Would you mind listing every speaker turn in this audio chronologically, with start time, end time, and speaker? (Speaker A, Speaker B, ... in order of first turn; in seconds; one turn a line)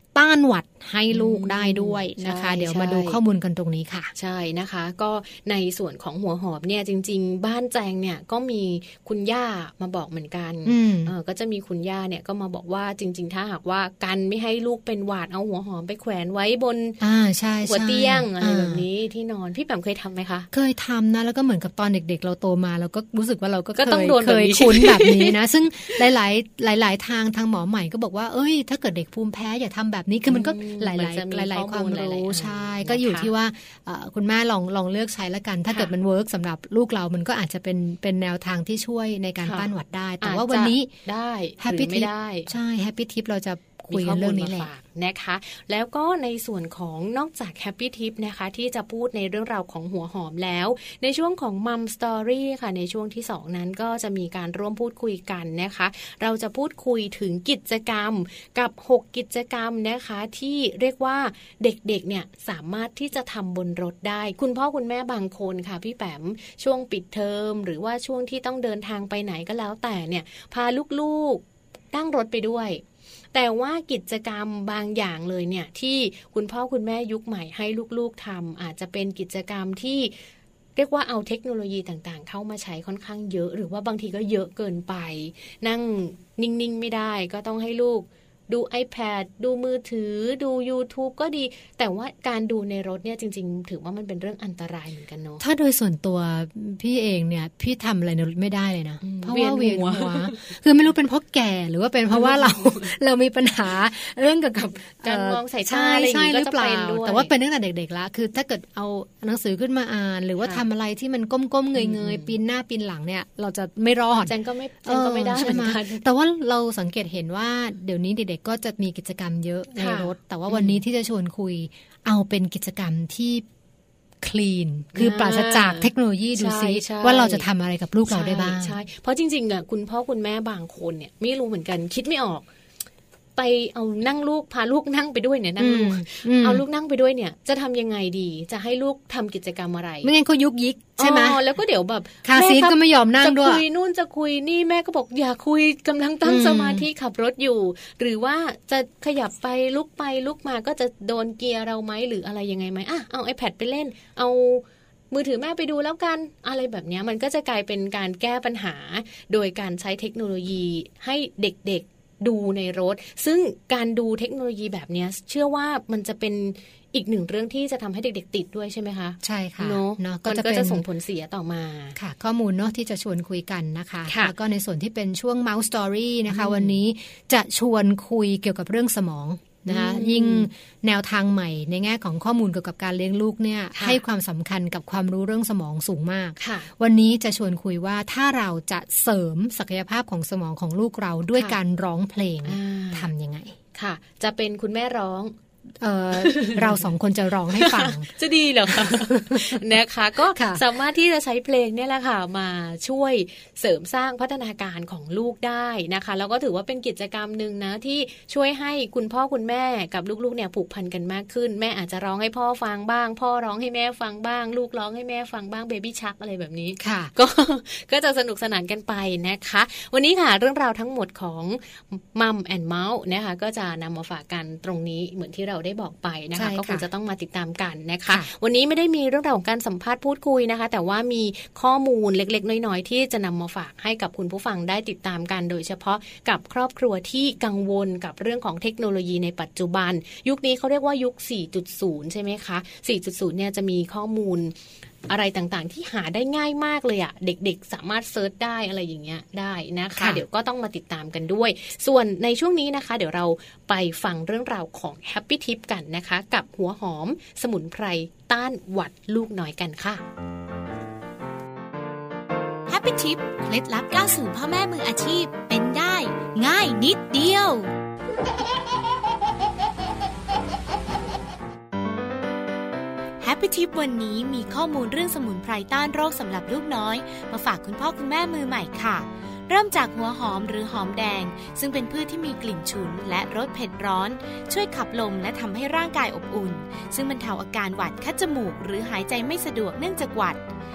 Speaker A: 0.1-4.1
Speaker B: 1.1-3.2
Speaker B: 4.2-17.0
Speaker A: 10.7-11.1
Speaker A: 17.0-18.9
Speaker B: 17.6-20.5
Speaker A: 20.5-40.9
Speaker B: 23.8-25.4
Speaker B: 30.3-33.3
Speaker B: 39.4-42.5
Speaker A: 41.6-44.7
Speaker B: 43.9-80.1
Speaker B: 80.8-95.4
Speaker A: 95.4-123.5
Speaker B: 99.0-100.5
Speaker B: 102.1-102.9
Speaker B: 105.0-107.3
Speaker B: 111.8-112.3
Speaker B: 114.3-116.0
Speaker B: 119.8-120.8
Speaker A: 124.2-128.8
Speaker B: 124.9-127.5
Speaker B: 128.1-132.5
Speaker B: 133.4-140.1
Speaker A: 135.6-136.6
Speaker A: 140.0-141.4
Speaker B: 141.0-172.0
Speaker A: 142.2-143.6
Speaker A: 146.2-146.9
Speaker A: 169.2-170.8
Speaker A: 172.0-193.6
Speaker B: 174.1-174.3
Speaker B: 176.3-176.8
Speaker B: 179.7-180.5
Speaker B: 183.7-184.0
Speaker B: 186.4-186.7
Speaker B: 192.4-193.1
Speaker B: 193.8-195.3
Speaker A: 195.8-198.1
Speaker B: 196.2-196.9
Speaker B: 197.6-244.6
Speaker A: 198.7-199.6
Speaker A: 200.3-200.6
Speaker A: 216.8-217.1
Speaker A: 226.4-226.9
Speaker B: 245.1-260.0
Speaker A: 250.0-250.2
Speaker C: 262.7-267.7
Speaker C: 273.2-290.4